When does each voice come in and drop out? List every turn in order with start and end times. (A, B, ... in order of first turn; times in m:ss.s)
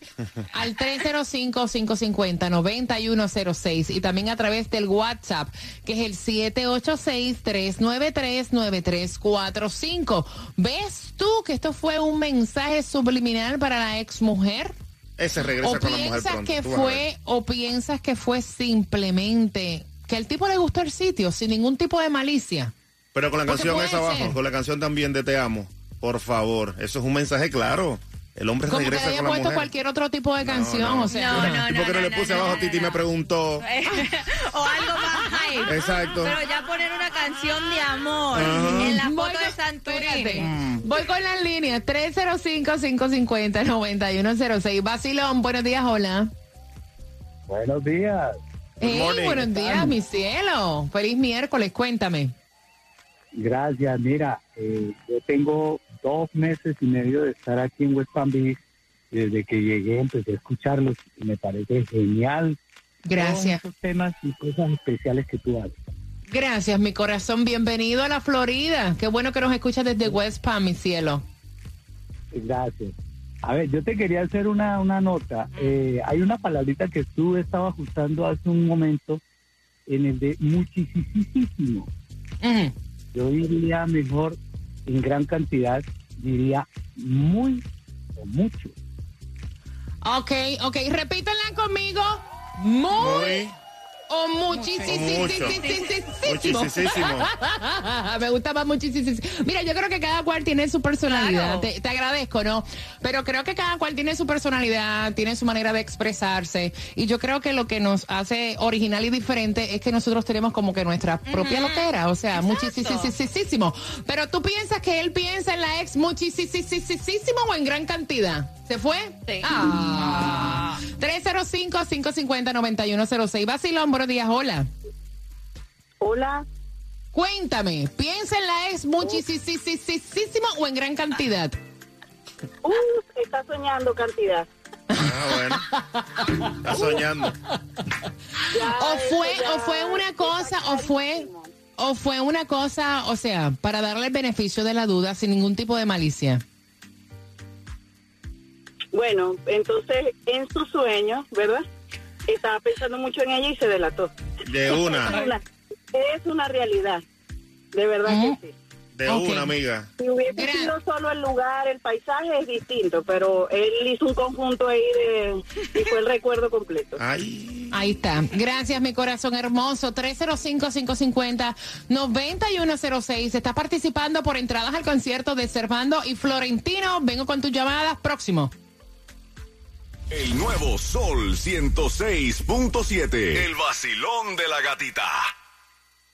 0:00.5-0:14.7 A
0:15.2-0:17.0 B
0:15.6-0:22.7 A
0:23.1-0:29.7 B
0:23.5-0:24.4 A
0:28.7-0:31.6 A
0:30.4-0:33.6 B
0:31.1-0:33.0 C
0:33.6-0:40.5 C
0:35.7-0:36.4 B
0:38.3-0:39.0 B
0:38.7-0:46.3 A
0:40.4-0:40.8 B
0:47.5-0:48.4 D
0:48.8-0:52.3 A
0:48.8-0:49.5 B
0:49.7-0:49.9 D
0:53.4-0:58.6 D
0:59.1-1:02.6 D
1:03.1-1:03.6 A
1:03.1-1:05.9 D
1:06.3-1:11.2 A
1:12.3-1:19.2 D
1:19.9-1:21.9 D
1:22.4-1:22.7 A
1:23.1-1:27.6 D
1:28.2-1:28.8 D
1:30.0-1:33.4 A
1:33.0-1:33.6 B
1:34.1-2:04.7 A
1:34.5-1:35.9 C
1:34.8-1:35.6 B
1:36.2-1:37.3 B
1:41.0-1:41.7 C
1:51.3-1:53.1 C
1:59.3-2:00.8 C
2:06.0-2:06.4 E
2:07.1-2:11.6 A
2:12.6-2:14.5 E
2:15.0-2:15.7 B
2:16.5-2:17.4 B
2:18.5-2:21.5 E
2:18.6-2:21.3 A
2:21.8-2:26.4 A
2:28.9-2:31.6 E
2:32.3-2:34.1 E
2:34.5-2:35.2 B
2:34.7-2:35.4 E
2:35.9-2:37.0 E
2:37.7-2:38.5 E
2:38.1-2:38.4 A
2:39.0-2:39.9 B
2:39.1-2:39.5 A
2:40.0-2:47.0 E
2:40.3-2:40.7 A
2:47.0-2:47.7 B
2:47.7-2:58.5 A
3:00.1-3:05.3 F